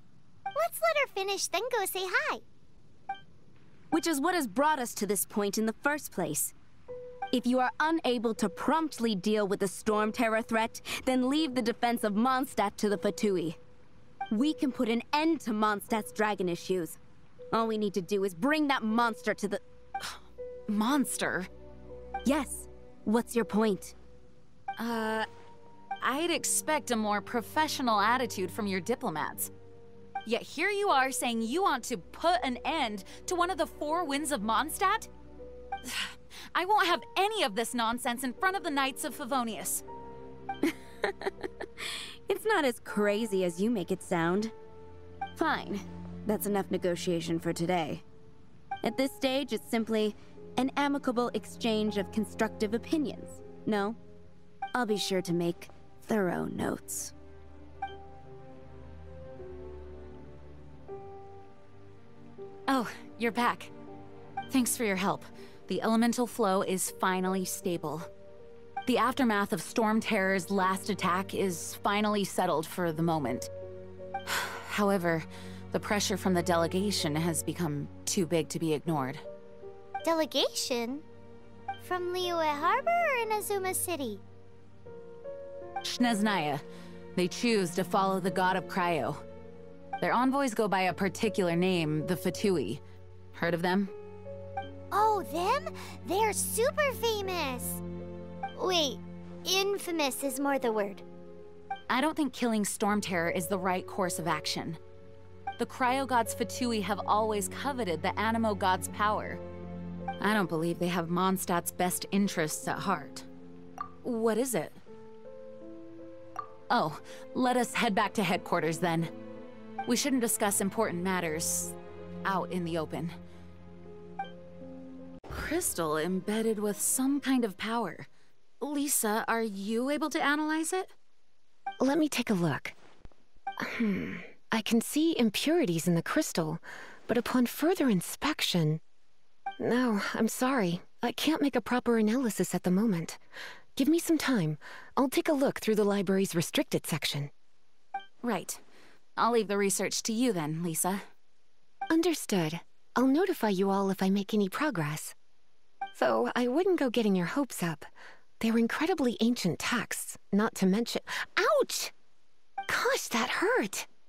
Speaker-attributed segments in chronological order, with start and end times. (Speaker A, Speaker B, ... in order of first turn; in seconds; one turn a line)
Speaker A: 0.6-2.4
Speaker B: 3.9-6.5
Speaker B: 7.3-13.6
Speaker B: 14.3-17.0
Speaker B: 17.5-19.6
Speaker C: 20.0-21.5
Speaker B: 22.2-24.0
Speaker C: 24.8-25.3
Speaker C: 26.0-29.5
Speaker C: 30.3-35.1
Speaker C: 35.8-39.8
Speaker B: 41.0-41.3
Speaker B: 42.3-44.5
Speaker B: 45.4-48.0
Speaker B: 48.8-54.0
Speaker B: 54.7-57.1
Speaker C: 62.7-63.7
Speaker C: 64.5-68.1
Speaker C: 68.9-73.5
Speaker C: 74.3-79.2
Speaker A: 80.0-81.0
Speaker A: 81.8-84.2
Speaker C: 85.8-86.6
Speaker C: 87.2-89.2
Speaker C: 90.0-92.8
Speaker C: 93.3-93.9
Speaker A: 94.9-97.8
Speaker A: 98.6-101.0
Speaker C: 101.9-104.8
Speaker C: 105.6-109.4
Speaker C: 110.2-113.3
Speaker C: 114.0-114.8
Speaker C: 116.7-119.1
Speaker C: 119.9-123.1
Speaker C: 125.3-128.1
Speaker C: 128.6-130.9
Speaker D: 131.8-132.8
Speaker D: 133.6-138.8
Speaker D: 139.6-143.2
Speaker D: 143.8-147.3
Speaker C: 148.2-148.6
Speaker C: 149.2-151.1
Speaker D: 151.9-155.2
Speaker D: 155.9-157.9
Speaker D: 158.4-161.9
Speaker D: 162.7-163.9